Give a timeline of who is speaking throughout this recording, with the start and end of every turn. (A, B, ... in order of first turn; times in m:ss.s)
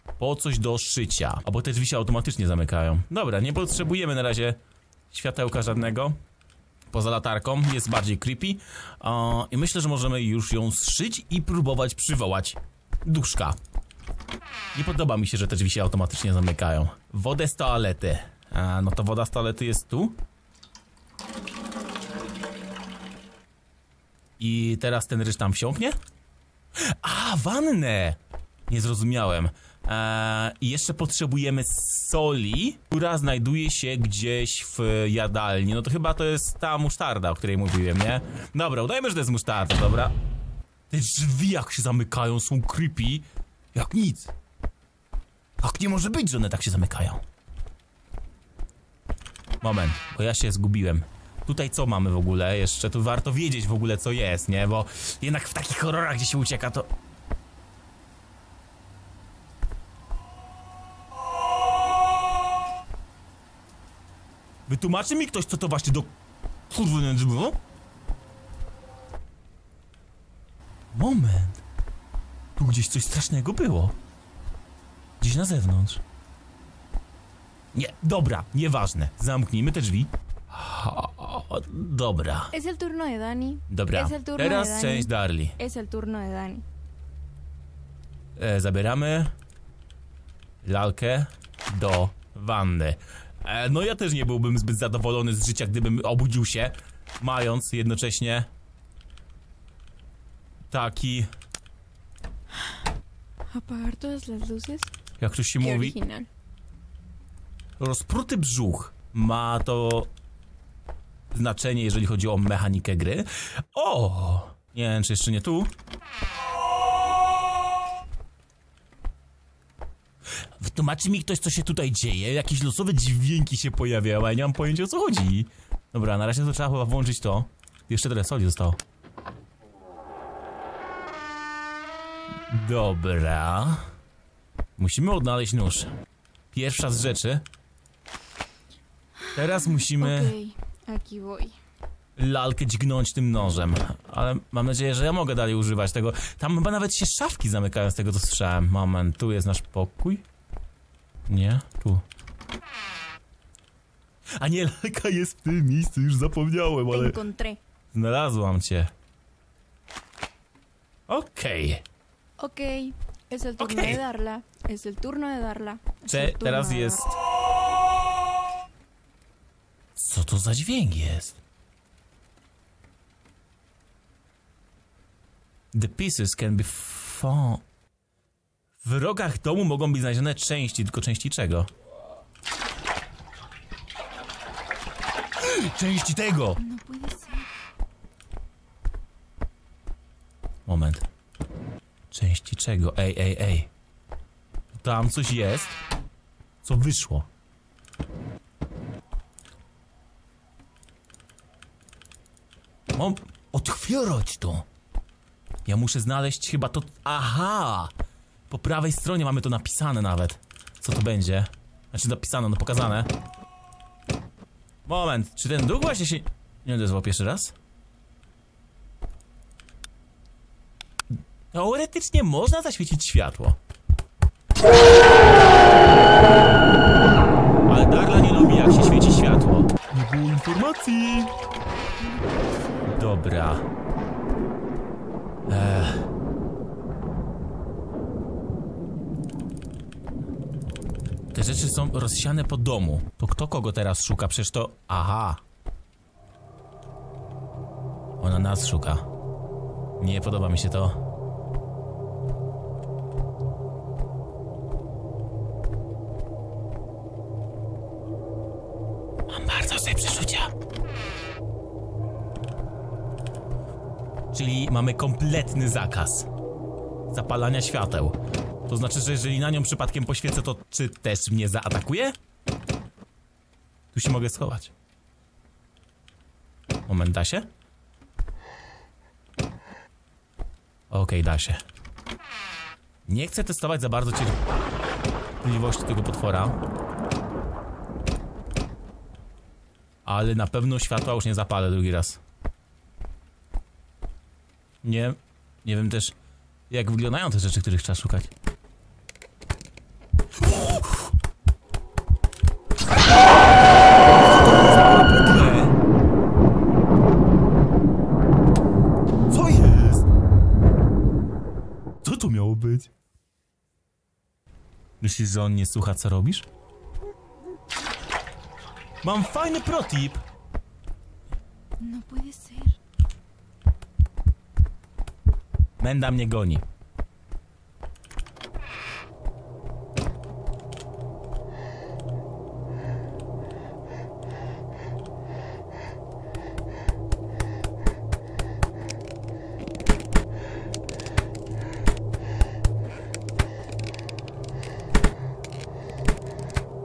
0:00.2-0:04.6 A
0:05.1-0:06.2 A
0:06.9-0:13.6 A
0:14.8-0:20.2 A
0:24.4-0:26.0 A
0:26.8-0:40.2 A
0:40.9-0:44.3 A
0:45.6-0:47.2 A
0:49.6-0:56.9 A
1:04.7-1:06.1 A
1:06.7-1:07.6 A
1:10.9-1:11.6 A
1:12.6-1:14.0 A
1:15.2-1:16.0 A
1:17.7-1:22.5 A
1:22.5-1:26.6 B
1:23.7-1:25.6 A
1:28.4-1:29.3 A
1:30.6-1:38.5 A
1:40.7-1:41.3 A
1:43.5-1:44.9 B
1:45.2-1:46.0 A
1:45.6-1:46.3 B
1:47.8-1:50.1 A
1:51.3-1:55.7 A
2:00.6-2:08.8 A
2:12.5-2:13.9 A
2:14.8-2:15.9 A
2:16.5-2:17.4 A
2:19.2-2:21.6 B
2:19.3-2:20.4 A
2:22.2-2:30.2 A
2:31.3-2:32.0 A
2:34.4-2:37.2 A
2:36.9-2:37.6 B
2:37.9-2:38.9 A
2:41.1-2:41.8 A
2:42.4-2:47.1 B
2:43.6-2:44.0 A
2:46.1-2:47.1 A
2:50.0-2:51.4 A
2:55.7-2:57.6 A
2:58.8-3:01.7 A
3:05.4-3:06.6 A
3:06.6-3:07.5 B
3:10.7-3:11.0 A
3:12.1-3:13.7 A
3:14.7-3:15.8 A
3:16.6-3:17.3 A
3:22.9-3:24.7 A
3:25.7-3:27.9 A
3:28.5-3:33.1 A
3:34.9-3:37.6 A
3:41.1-3:43.6 A
3:47.7-3:51.3 A
3:52.0-3:53.0 B
3:52.9-3:53.7 A
3:55.5-3:56.1 A
4:01.3-4:05.4 A
4:08.2-4:09.1 A
4:10.0-4:11.0 A
4:19.3-4:20.5 A
4:24.3-4:26.3 A
4:27.1-4:28.2 A
4:28.7-4:32.2 A
4:33.9-4:34.7 A
4:36.9-4:37.5 A
4:40.9-4:41.6 A
4:43.1-4:44.4 A
4:45.4-4:46.6 A
4:50.0-4:52.2 A
4:54.8-4:56.2 A
4:56.7-4:58.3 A
5:00.4-5:01.1 A
5:04.2-5:05.8 A
5:09.3-5:10.0 A
5:12.0-5:12.9 A
5:15.0-5:16.5 A
5:19.0-5:20.2 A
5:21.8-5:22.8 B
5:25.8-5:26.6 A